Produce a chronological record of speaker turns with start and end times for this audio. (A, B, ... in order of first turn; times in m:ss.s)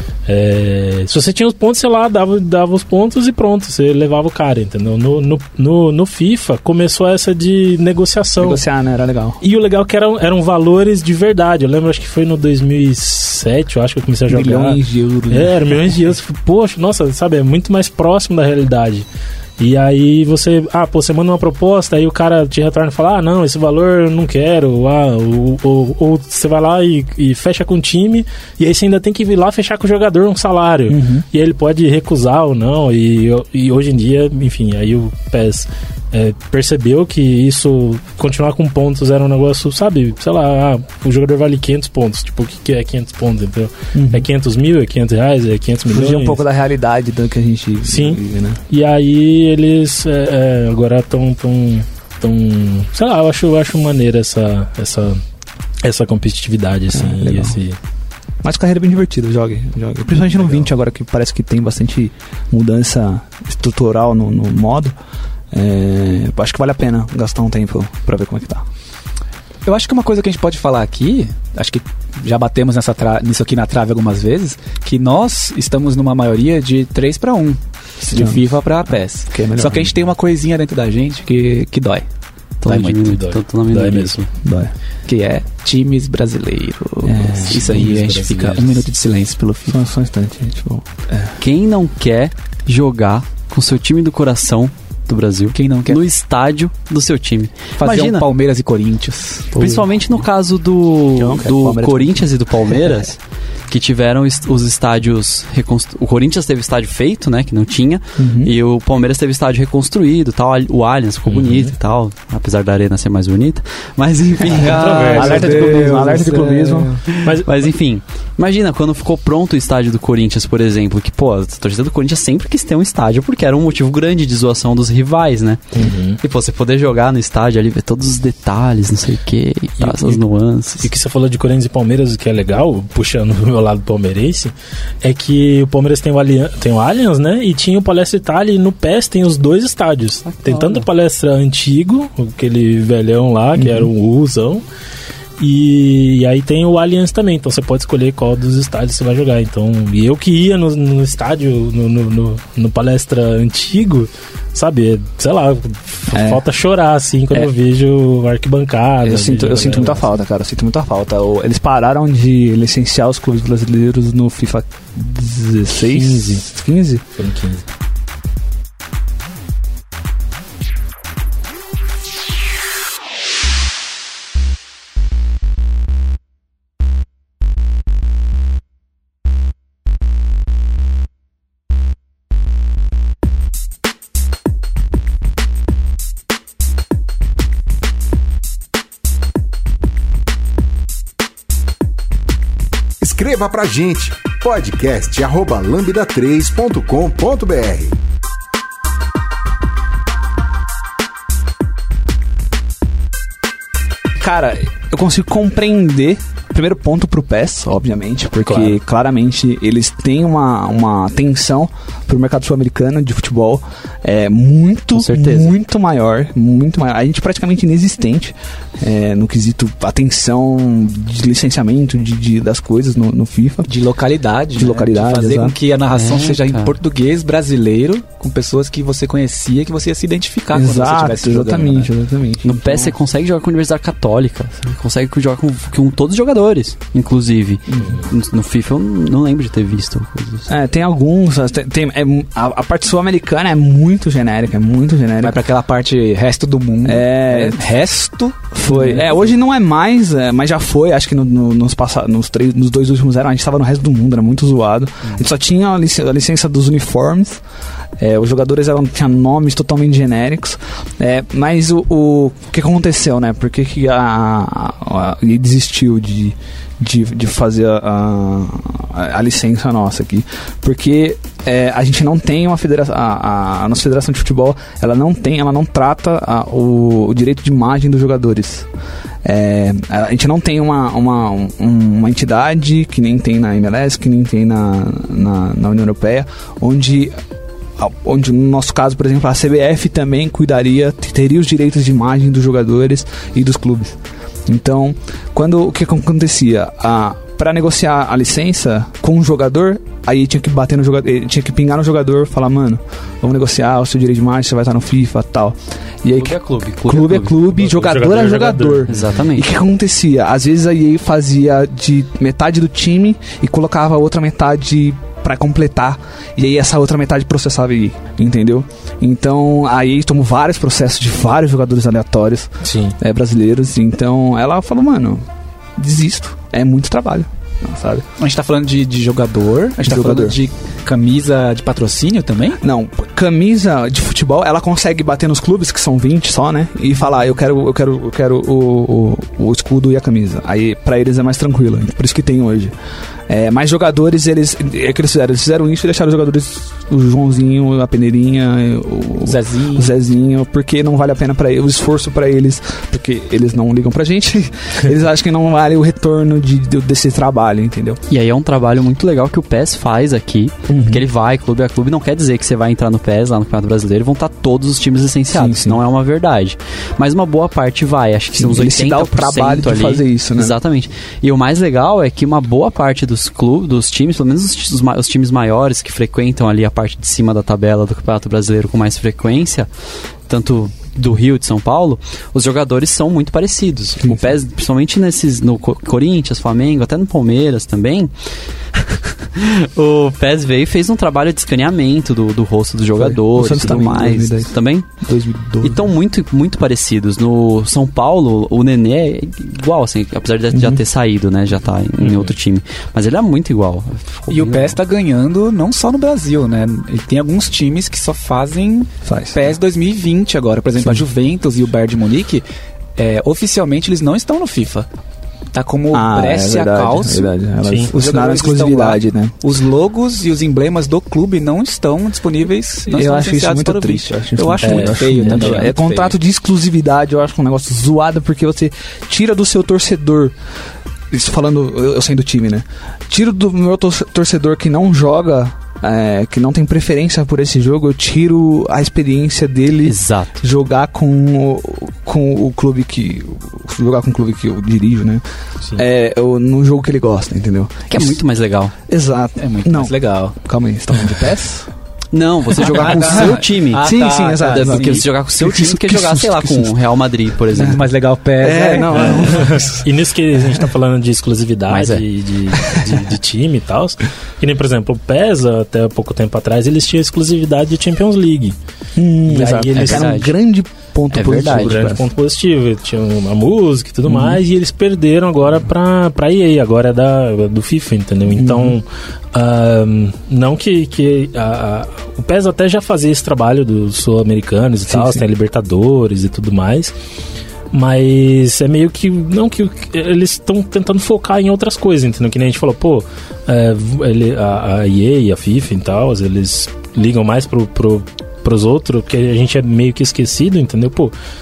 0:00.3-0:08.6 A
0:08.4-0:09.4 B
0:09.4-0:19.0 A
0:14.3-0:15.8 B
0:19.6-0:46.4 A
0:30.9-0:31.3 B
0:43.9-0:44.3 B
0:45.9-0:48.6 B
0:47.9-0:55.2 A
0:55.8-0:57.8 A
0:56.9-0:57.6 B
0:58.4-1:04.9 B
1:05.5-1:08.6 B
1:09.6-1:22.1 C
1:18.1-1:19.9 B
1:22.6-1:24.3 D
1:22.7-1:23.0 C
1:22.8-1:24.2 A
1:24.4-1:24.7 B
1:25.1-1:29.8 C
1:27.0-1:27.9 B
1:27.4-1:28.8 A
1:29.7-1:31.3 B
1:31.4-1:38.3 D
1:35.5-1:36.0 C
1:37.8-1:39.6 C
1:39.5-1:55.5 D
1:39.6-1:39.9 B
1:41.2-1:42.3 B
1:48.2-1:48.5 B
1:51.3-1:51.7 A
1:54.5-1:57.0 C
1:54.6-1:56.1 A
1:55.1-1:57.0 B
1:57.0-2:05.7 D
1:57.2-1:57.7 A
2:05.7-2:06.2 A
2:06.2-2:10.9 D
2:09.8-2:10.2 A
2:10.8-2:24.6 A
2:20.3-2:20.9 D
2:23.6-2:23.9 B
2:25.4-2:40.1 A
2:36.1-2:36.4 B
2:39.0-2:47.0 B
2:45.8-2:46.5 A
2:47.2-2:47.6 A
3:13.0-3:18.0 E
3:24.2-3:43.7 B
3:28.4-3:28.8 A
3:34.9-3:35.5 D
3:43.7-3:51.9 C
3:44.5-3:45.6 B
3:45.9-3:46.8 D
3:50.5-3:53.0 B
3:52.4-4:00.5 D
3:57.7-3:58.0 B
4:00.5-4:05.4 B
4:05.2-4:09.3 C
4:06.8-4:07.8 B
4:08.5-4:17.4 B
4:18.0-4:38.7 B
4:39.2-4:47.2 B
4:47.8-5:25.2 B
5:06.2-5:07.4 D
5:07.4-5:09.2 A
5:08.9-5:09.5 D
5:22.6-5:23.0 A
5:25.8-5:28.1 B
5:28.2-5:32.6 C
5:29.8-5:30.4 B
5:32.6-5:42.7 B
5:43.3-5:58.0 B
5:49.2-5:49.9 C
5:58.1-6:19.7 D
6:00.7-6:01.0 B
6:05.3-6:05.8 B
6:08.4-6:10.6 B
6:20.3-6:28.1 D
6:24.0-6:24.3 B
6:28.7-6:34.9 D
6:33.0-6:35.9 B
6:35.6-6:44.8 D
6:40.5-6:40.8 B
6:42.0-6:42.3 A
6:44.3-6:52.4 C
6:49.0-6:49.4 B
6:50.8-6:51.1 B
6:53.0-6:54.9 C
6:55.5-6:57.3 C
6:55.9-6:59.4 B
6:57.6-6:57.9 A
6:57.9-7:06.2 C
7:02.9-7:10.4 B
7:04.6-7:05.7 A
7:11.1-7:25.2 B
7:19.8-7:20.3 D
7:25.8-7:28.2 B
7:27.9-7:28.7 D
7:28.9-7:31.7 B
7:29.4-7:30.4 C
7:32.1-7:37.8 D
7:32.6-7:36.8 B
7:32.6-7:35.1 C
7:37.6-7:39.3 C
7:38.4-7:39.9 B
7:38.9-7:48.6 A
7:41.7-7:42.0 D
7:49.0-7:52.1 B
7:49.3-7:50.2 A
7:49.8-7:50.3 D
7:51.1-7:51.8 D
7:51.4-8:06.9 A
7:54.1-7:54.4 B
7:58.3-7:58.8 B
8:04.9-8:05.2 B
8:07.7-8:21.1 A